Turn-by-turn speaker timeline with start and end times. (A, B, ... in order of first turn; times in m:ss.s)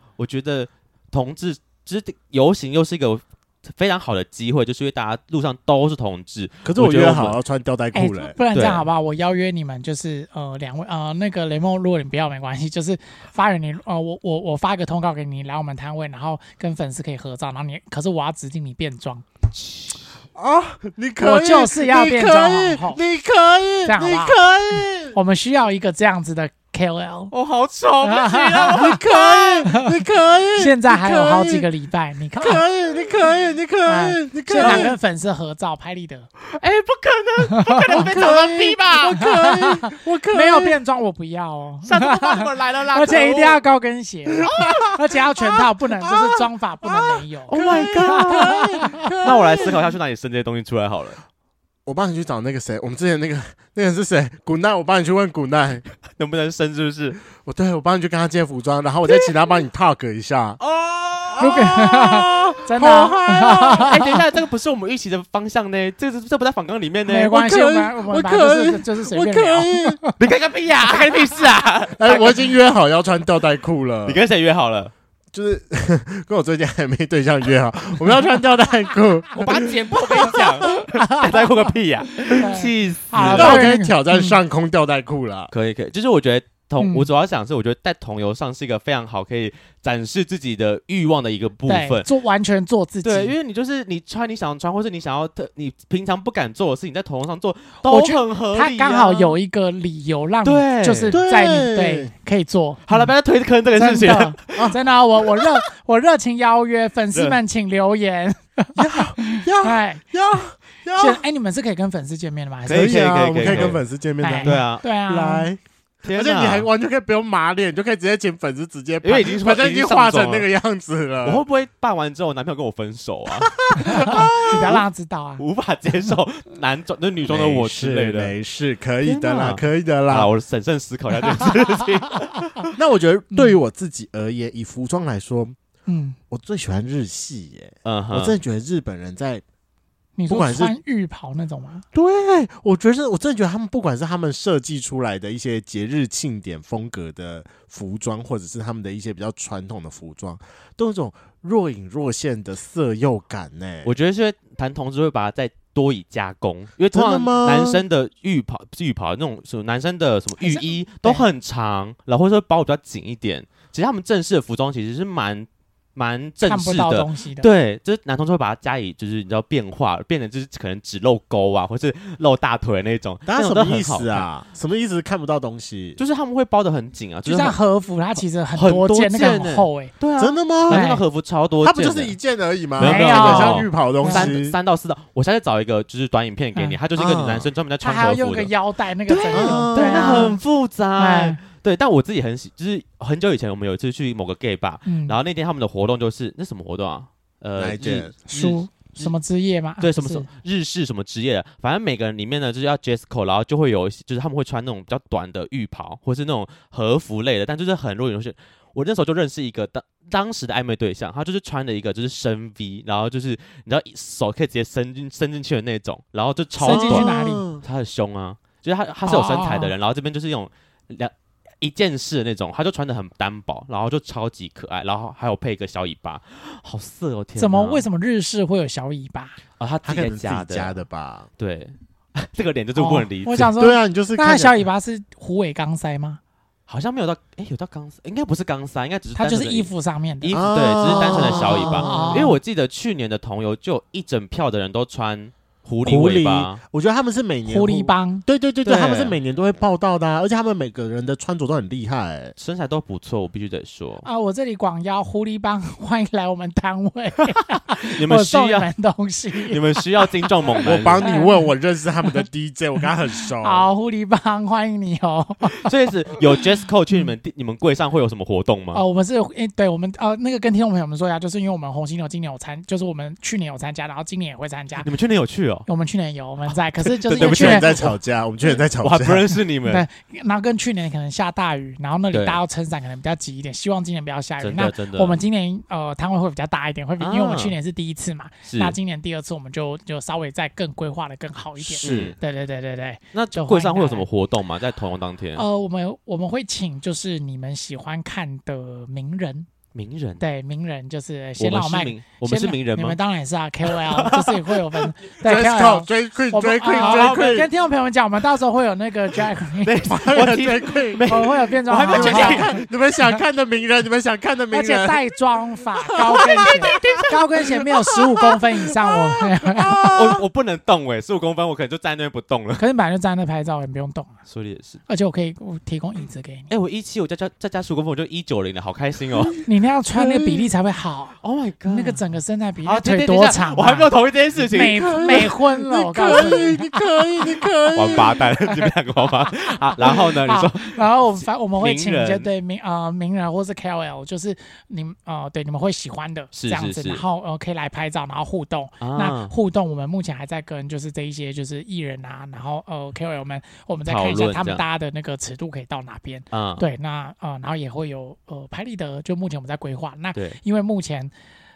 0:00.2-0:07.4 A
0:06.6-0:08.4 B
0:08.0-0:19.3 C
0:08.5-0:08.9 A
0:20.4-0:25.2 B
0:21.2-0:23.0 C
0:23.9-0:24.4 C
0:25.1-0:27.3 C
0:27.3-0:29.7 A
0:28.0-0:29.0 C
0:28.7-0:31.7 B
0:29.7-0:30.0 C
0:30.6-0:32.6 C
0:32.4-0:35.0 B
0:33.9-0:36.3 C
0:34.6-0:34.9 A
0:36.6-0:39.2 A
0:37.5-0:38.2 C
0:37.9-0:40.8 B
0:39.2-0:49.1 C
0:41.8-0:43.6 A
0:44.4-0:49.9 B
0:44.5-0:44.8 A
0:47.5-0:51.2 A
0:51.9-0:55.8 B
0:56.1-0:57.2 A
0:57.4-1:00.6 B
1:00.6-1:01.5 A
1:01.3-1:03.9 B
1:01.4-1:04.2 C
1:03.8-1:07.4 A
1:07.1-1:10.2 C
1:07.3-1:10.0 B
1:10.2-1:12.4 A
1:12.0-1:14.2 B
1:14.1-1:14.9 A
1:15.3-1:20.4 B
1:19.3-1:23.7 A
1:20.2-1:21.7 C
1:22.4-1:24.4 C
1:23.2-1:25.5 B
1:25.5-1:32.1 A
1:26.8-1:27.1 C
1:31.7-1:33.4 C
1:33.0-1:39.4 A
1:37.8-1:43.1 C
1:40.4-1:41.2 A
1:41.1-1:42.1 B
1:42.9-1:44.7 A
1:43.8-1:50.0 C
1:44.5-1:44.8 B
1:47.1-1:47.4 A
1:48.8-1:51.2 B
1:51.0-1:55.5 C
1:52.7-1:53.8 A
1:52.7-2:01.4 B
1:54.4-1:54.8 A
1:56.0-1:56.7 A
1:59.0-2:00.5 A
2:01.2-2:04.8 A
2:03.4-2:04.8 B
2:03.9-2:05.4 C
2:05.4-2:08.3 A
2:07.2-2:10.3 B
2:09.0-2:12.7 A
2:11.3-2:11.6 C
2:12.8-2:15.6 B
2:15.9-2:16.2 C
2:16.3-2:19.4 B
2:17.8-2:18.4 A
2:20.2-2:21.9 C
2:20.3-2:20.8 B
2:21.9-2:33.9 B
2:33.8-2:54.3 A
2:36.9-2:37.8 B
2:40.4-2:41.3 C
2:46.4-2:47.5 C
2:53.3-2:56.0 B
2:56.0-2:57.6 A
2:57.3-2:59.9 C
2:58.6-3:02.2 A
3:00.2-3:00.9 B
3:00.7-3:01.0 C
3:01.6-3:04.6 B
3:02.8-3:08.5 A
3:02.8-3:04.3 C
3:06.6-3:06.8 C
3:07.0-3:07.5 B
3:07.8-3:10.4 C
3:09.1-3:19.1 A
3:09.3-3:10.4 B
3:11.0-3:11.4 C
3:14.9-3:15.2 C
3:17.6-3:18.3 B
3:18.3-3:20.3 C
3:19.8-3:47.8 A
3:36.6-3:37.5 C
3:36.6-3:37.6 B
3:39.1-3:39.8 C
3:47.4-3:49.4 C
3:49.6-3:50.8 A
3:49.8-3:51.3 B
3:51.4-3:53.5 A
3:52.8-3:56.2 C
3:53.6-3:54.7 B
3:56.7-4:06.6 A
3:59.2-4:00.4 C
4:00.3-4:02.3 B
4:01.0-4:02.4 C
4:05.8-4:12.3 B
4:07.5-4:08.3 C
4:08.6-4:09.2 A
4:12.4-4:14.1 A
4:14.0-4:21.5 C
4:17.8-4:18.7 A
4:19.5-4:21.2 A
4:20.6-4:23.7 B
4:23.4-4:27.1 C
4:25.6-4:28.8 A
4:28.7-4:34.9 C
4:34.8-4:35.7 A
4:35.7-4:37.8 C
4:36.9-4:37.9 A
4:37.1-4:39.3 B
4:38.8-4:39.8 A
4:39.6-4:54.1 C
4:42.1-4:42.4 A
4:44.4-4:45.2 A
4:47.0-4:47.6 A
4:48.5-4:48.8 A
4:51.6-4:52.2 B
4:51.8-4:52.2 A
4:53.1-4:55.4 A
4:55.4-4:59.5 C
4:59.8-5:00.2 A
5:00.2-5:09.8 C
5:01.4-5:03.0 A
5:03.6-5:04.9 A
5:05.2-5:07.5 B
5:06.7-5:07.4 A
5:09.6-5:12.6 A
5:09.8-5:11.1 B
5:11.1-5:13.2 C
5:11.8-5:15.1 B
5:14.5-5:19.9 C
5:15.8-5:17.0 B
5:16.1-5:17.2 A
5:17.8-5:20.2 B
5:19.9-5:22.6 A
5:22.6-5:24.2 C
5:24.3-5:24.8 A
5:24.9-5:26.5 C
5:26.5-5:29.3 A
5:29.4-5:37.5 C
5:30.0-5:30.5 B
5:31.2-5:32.0 A
5:32.6-5:35.3 A
5:34.7-5:38.3 B
5:36.1-5:36.4 A
5:37.8-5:42.3 A
5:38.5-6:01.1 C
5:46.3-5:47.0 A
5:48.8-5:49.3 A
5:53.9-5:54.6 A
5:56.3-5:56.7 A